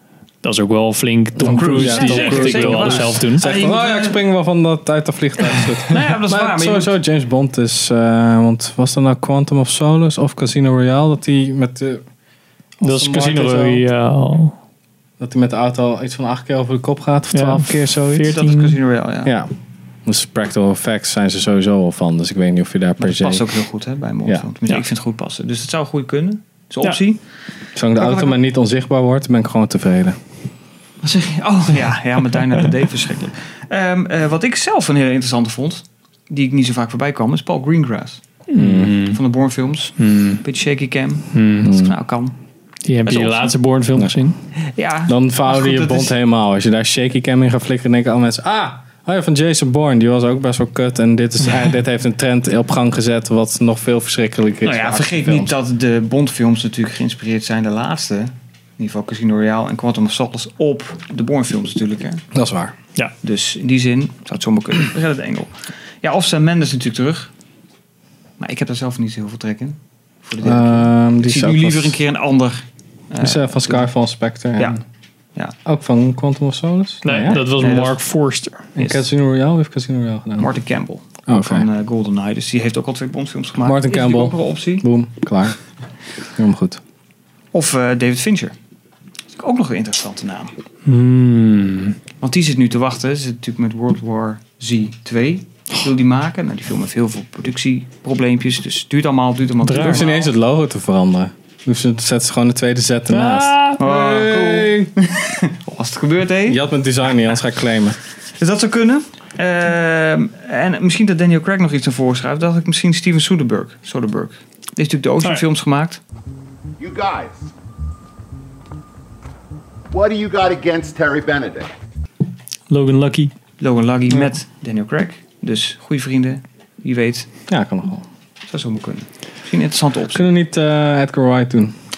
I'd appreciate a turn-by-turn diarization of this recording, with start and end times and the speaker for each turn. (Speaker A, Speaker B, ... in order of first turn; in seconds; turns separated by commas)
Speaker A: 0.4-3.5, Speaker B: 1.4-12.0, Speaker C: 1.4-4.2, Speaker C: 5.9-6.9, Speaker B: 12.8-13.8, Speaker A: 12.8-14.6, Speaker B: 15.2-18.3, Speaker A: 17.3-18.8, Speaker C: 18.3-19.3, Speaker B: 19.2-19.5, Speaker B: 20.0-23.5, Speaker C: 23.0-27.2, Speaker B: 27.8-30.2, Speaker C: 27.9-28.4, Speaker C: 31.0-38.2, Speaker A: 38.5-39.2, Speaker B: 38.5-38.9, Speaker C: 38.9-42.4, Speaker A: 40.0-40.4, Speaker A: 41.3-41.7, Speaker B: 41.6-41.9, Speaker A: 42.9-44.4, Speaker C: 43.0-43.5, Speaker C: 44.7-46.1, Speaker B: 45.1-55.5, Speaker C: 54.6-62.2, Speaker B: 62.3-62.7, Speaker C: 63.2-67.3, Speaker C: 68.4-73.9, Speaker B: 70.4-72.0, Speaker B: 73.2-74.8, Speaker C: 74.5-74.8, Speaker B: 75.6-77.4, Speaker A: 77.0-78.7, Speaker C: 77.3-78.0, Speaker C: 78.8-79.0, Speaker B: 78.8-80.5, Speaker C: 80.4-84.9, Speaker B: 81.3-81.7, Speaker B: 83.6-85.6, Speaker B: 86.4-86.8, Speaker C: 87.5-88.5, Speaker C: 89.3-90.5, Speaker A: 90.8-92.0, Speaker C: 92.2-100.3, Speaker A: 99.6-100.0, Speaker B: 99.8-104.9, Speaker A: 103.1-103.8, Speaker C: 103.8-106.6, Speaker B: 106.5-108.0, Speaker C: 108.4-116.0, Speaker D: 116.8-117.5, Speaker D: 119.9-121.7, Speaker A: 122.7-123.3, Speaker C: 123.6-127.3, Speaker B: 127.5-128.1, Speaker C: 128.5-130.3, Speaker B: 130.1-131.8